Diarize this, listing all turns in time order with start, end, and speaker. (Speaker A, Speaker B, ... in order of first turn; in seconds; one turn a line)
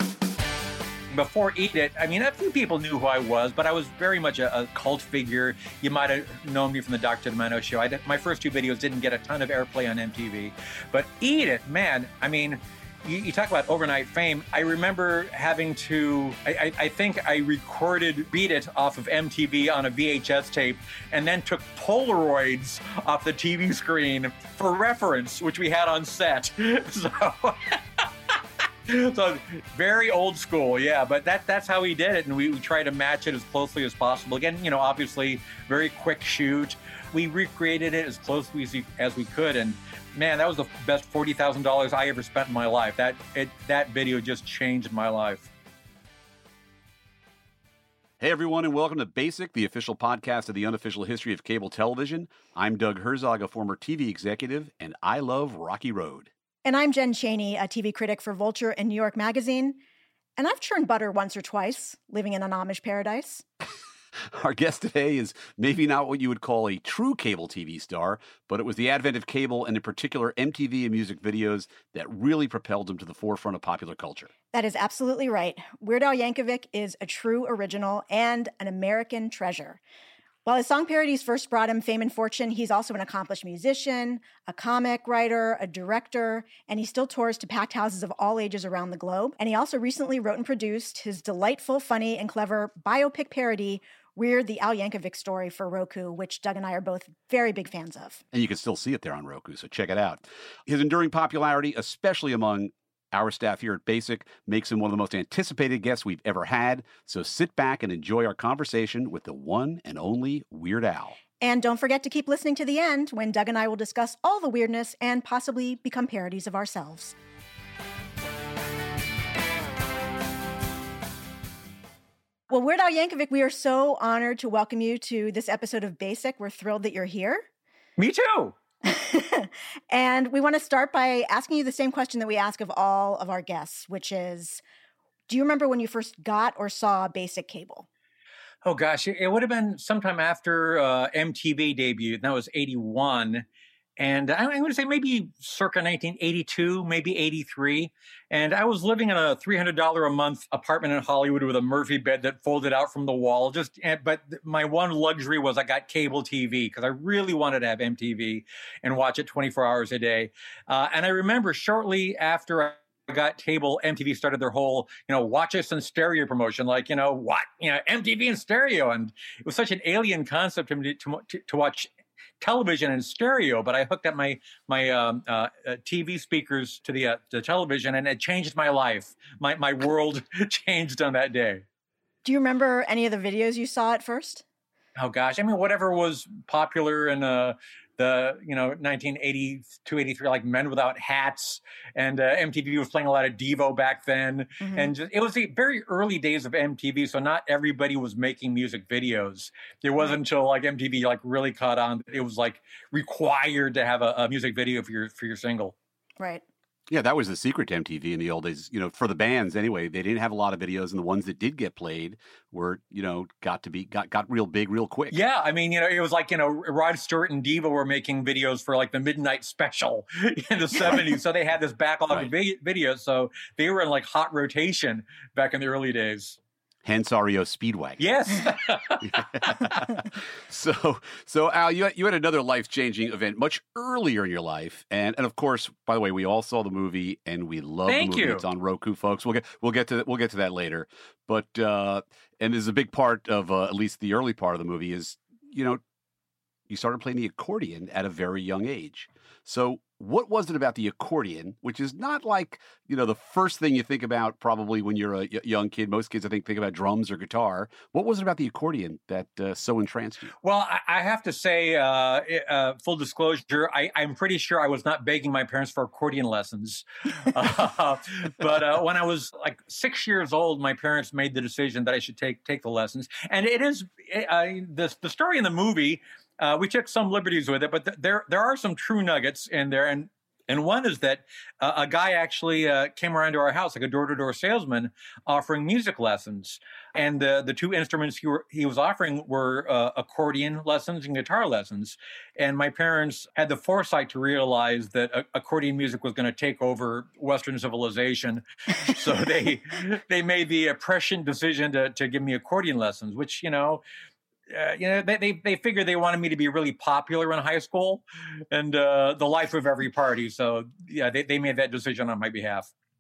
Speaker A: 1.1-28.1
Speaker A: 28.9-45.5
Speaker B: 48.2-56.3
Speaker C: 56.6-59.8
Speaker C: 60.4-63.5
Speaker B: 64.2-74.3
Speaker C: 74.5-79.8
Speaker C: 80.5-98.2
Speaker B: 98.3-111.2
Speaker C: 111.4-117.2
Speaker C: 122.5-127.5
Speaker A: 128.0-128.6
Speaker C: 128.8-134.6
Speaker C: 135.3-137.9
Speaker A: 138.7-143.5
Speaker A: 144.0-171.9
Speaker A: 172.4-181.6
Speaker C: 182.2-184.4
Speaker A: 185.0-205.8
Speaker C: 194.6-194.9
Speaker C: 206.2-206.4
Speaker B: 206.9-215.2
Speaker A: 215.1-226.4
Speaker B: 226.8-228.1
Speaker A: 228.0-229.9
Speaker B: 229.0-245.8
Speaker A: 237.9-238.4
Speaker B: 246.7-260.3
Speaker A: 260.4-303.8
Speaker A: 304.5-312.7